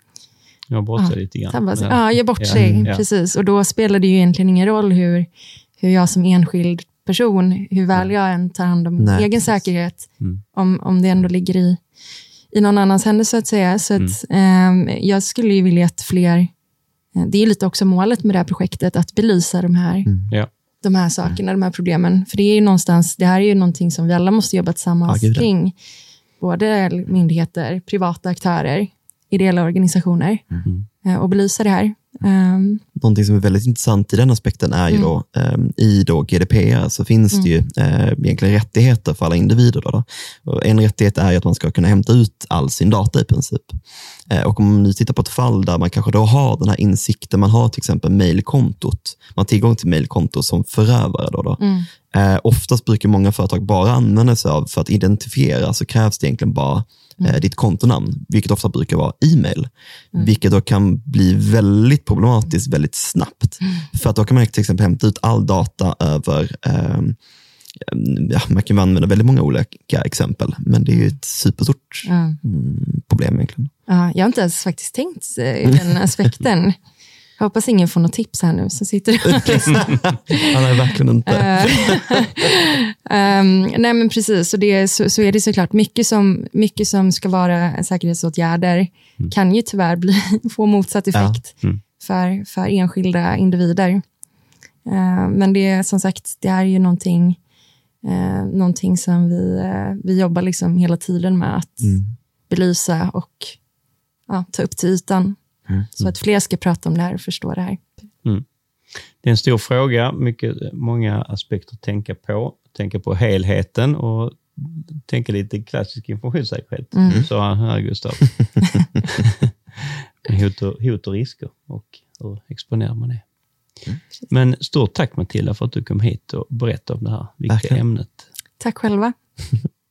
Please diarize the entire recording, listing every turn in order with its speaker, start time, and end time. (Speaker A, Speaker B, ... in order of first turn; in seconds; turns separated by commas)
Speaker A: 0.7-3.0, Speaker B: 1.0-11.8, Speaker C: 2.5-2.9, Speaker C: 9.0-9.3, Speaker B: 12.5-16.5, Speaker B: 17.1-20.1, Speaker C: 20.1-20.3, Speaker B: 20.8-25.8, Speaker C: 25.1-25.5, Speaker B: 26.4-32.8, Speaker C: 33.0-67.2, Speaker B: 51.6-51.9, Speaker C: 67.8-73.7, Speaker B: 72.1-72.4, Speaker B: 73.9-76.8, Speaker B: 77.4-80.5, Speaker C: 79.3-82.2, Speaker B: 81.3-94.0, Speaker C: 91.1-91.4, Speaker B: 94.9-97.4, Speaker B: 98.0-102.0, Speaker C: 101.8-102.1, Speaker B: 102.5-103.5, Speaker B: 104.3-105.4, Speaker B: 105.9-107.8, Speaker A: 109.0-123.2, Speaker B: 116.9-117.2, Speaker A: 124.3-128.2, Speaker C: 127.5-127.8, Speaker B: 128.6-129.2